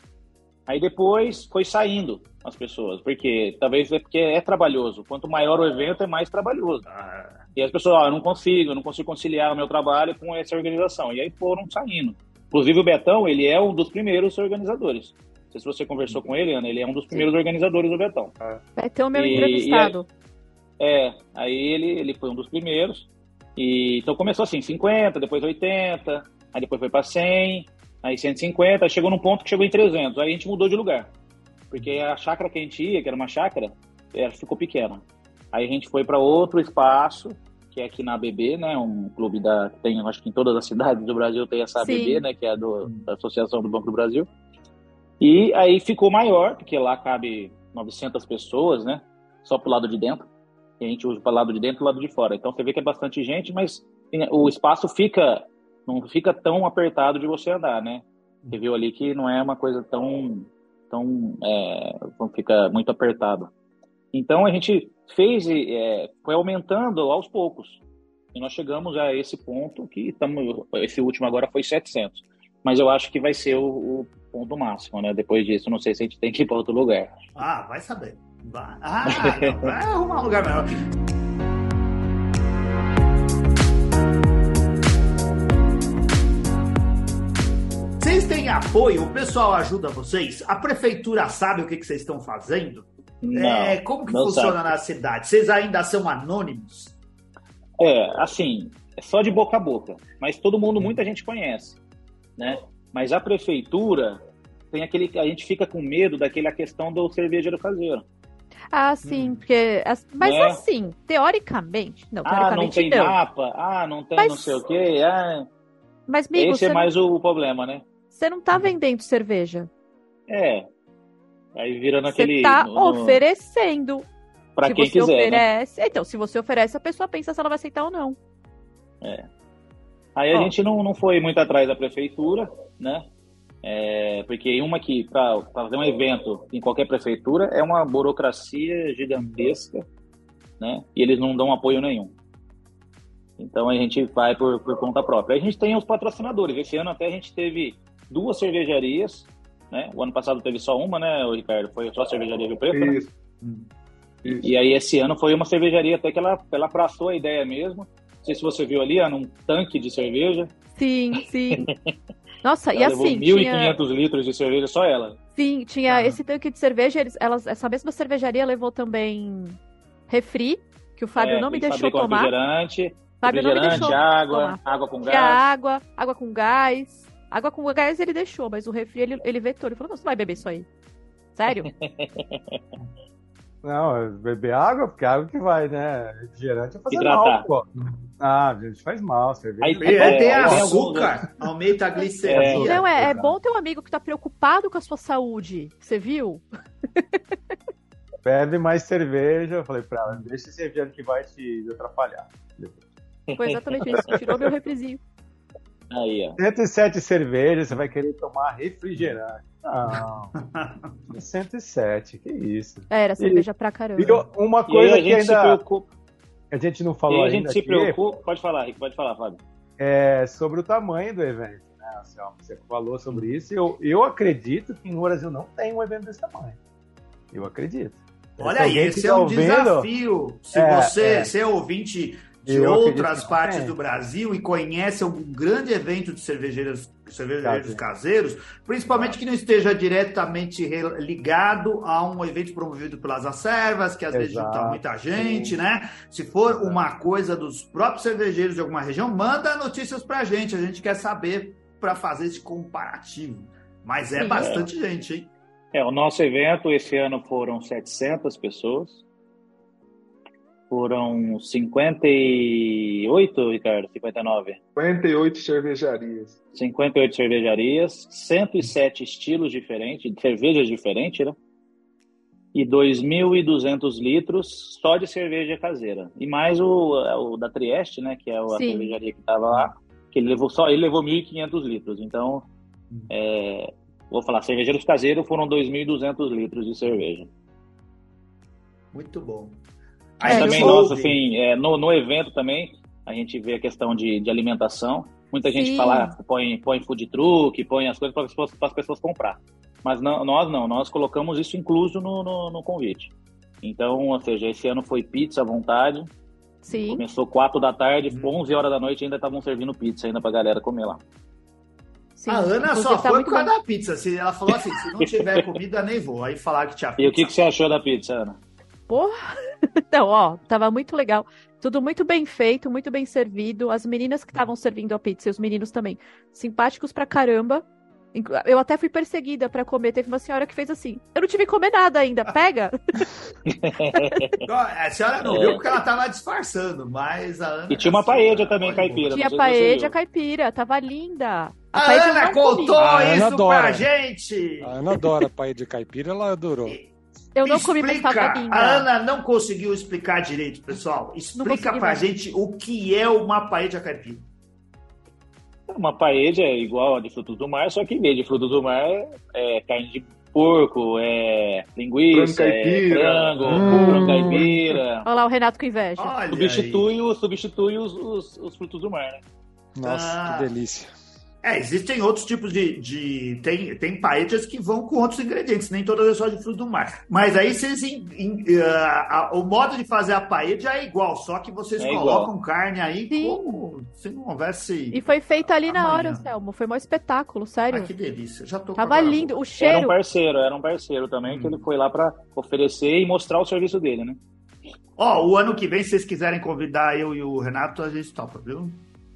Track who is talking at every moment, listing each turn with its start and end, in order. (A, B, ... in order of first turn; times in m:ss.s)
0:00.7-0:06.8 A
0:06.8-0:07.4 B
0:07.6-0:18.3 A
0:18.8-0:20.1 C
0:19.2-0:20.0 A
0:20.8-0:31.1 A
0:31.7-0:44.3 A
0:41.8-0:42.2 C
0:45.2-0:50.3 A
0:50.8-1:03.5 A
1:04.1-1:07.8 A
1:08.3-1:17.1 A
1:17.4-1:20.9 B
1:19.1-1:19.5 A
1:28.0-1:37.0 B
1:33.2-1:34.7 A
1:37.8-1:41.8 A
1:42.4-1:44.2 A
1:44.7-1:48.0 A
1:48.7-1:53.2 C
1:49.0-1:49.4 B
1:50.2-1:50.6 A
1:52.2-1:55.5 A
1:54.2-1:54.6 C
1:56.1-1:56.9 C
1:56.3-1:57.8 A
1:58.1-1:59.7 C
2:00.3-2:00.6 A
2:01.6-2:03.2 A
2:02.1-2:04.1 C
2:04.6-2:05.4 A
2:04.6-2:08.2 C
2:10.2-2:13.0 A
2:13.6-2:19.8 A
2:20.6-2:22.1 A
2:23.4-2:33.0 A
2:32.7-2:33.1 D
2:33.4-2:33.7 B
2:34.3-2:40.5 A
2:40.7-2:41.7 C
2:42.4-2:43.8 C
2:42.7-2:45.2 A
2:45.3-2:49.6 C
2:45.9-2:46.2 B
2:50.1-2:52.3 C
2:51.2-2:55.4 A
2:53.2-3:00.7 C
2:53.7-2:54.0 B
3:01.3-3:01.7 C
3:01.8-3:02.6 A
3:03.6-3:10.8 E
3:06.9-3:07.5 A
3:09.6-3:11.2 A
3:09.8-3:13.3 B
3:12.2-3:12.7 A
3:12.3-3:13.3 E
3:12.4-3:16.4 C
3:18.2-3:22.8 E
3:23.4-3:25.0 C
3:25.9-3:26.4 A
3:26.4-3:30.3 E
3:30.4-3:30.9 B
3:31.1-3:33.4 E
3:32.9-3:34.2 C
3:34.0-3:35.6 E
3:34.7-3:35.9 A
3:36.5-3:38.0 E
3:37.1-3:39.4 A
3:39.8-3:46.6 E
3:47.3-3:49.9 E
3:48.4-4:15.3 B
3:50.5-3:51.3 E
3:52.4-3:53.8 E
3:57.4-3:57.8 E
4:04.1-4:05.6 E
4:06.5-4:06.8 E
4:14.2-4:14.4 C
4:14.3-4:14.7 A
4:15.7-4:19.0 A
4:20.7-4:24.6 A
4:24.8-4:26.4 D
4:26.5-4:31.4 A
4:32.5-4:42.5 A
4:38.5-4:38.9 C
4:43.1-4:47.3 A
4:48.9-4:49.6 B
4:50.2-4:51.2 B
4:50.2-4:50.8 C
4:50.2-5:06.1 A
4:55.4-4:56.1 C
5:06.6-5:07.0 C
5:06.7-5:11.0 A
5:08.1-5:08.4 B
5:12.2-5:13.5 C
5:12.3-5:17.3 B
5:14.8-5:15.4 A
5:17.0-5:18.4 A
5:18.9-5:19.1 C
5:19.9-5:33.0 C
5:33.5-5:34.4 A
5:33.9-5:34.3 C
5:34.4-5:39.1 B
5:35.2-5:35.6 A
5:37.7-5:39.9 A
5:39.1-5:42.8 C
5:41.7-5:45.1 B
5:42.8-5:43.9 F
5:44.6-5:46.8 F
5:46.6-5:46.9 B
5:47.3-5:48.9 C
5:47.4-5:54.2 B
5:51.4-5:52.0 C
5:55.7-6:05.1 A
6:02.1-6:04.0 D
6:03.5-6:04.6 F
6:05.0-6:06.2 C
6:06.0-6:06.9 B
6:06.3-6:09.2 A
6:09.8-6:10.9 F
6:09.8-6:10.5 B
6:11.4-6:26.2 B
6:21.8-6:22.3 A
6:23.1-6:23.4 C
6:24.9-6:27.9 C
6:27.7-6:29.3 B
6:28.8-6:30.0 C
6:29.6-6:34.2 A
6:31.2-6:31.6 B
6:35.0-6:38.8 B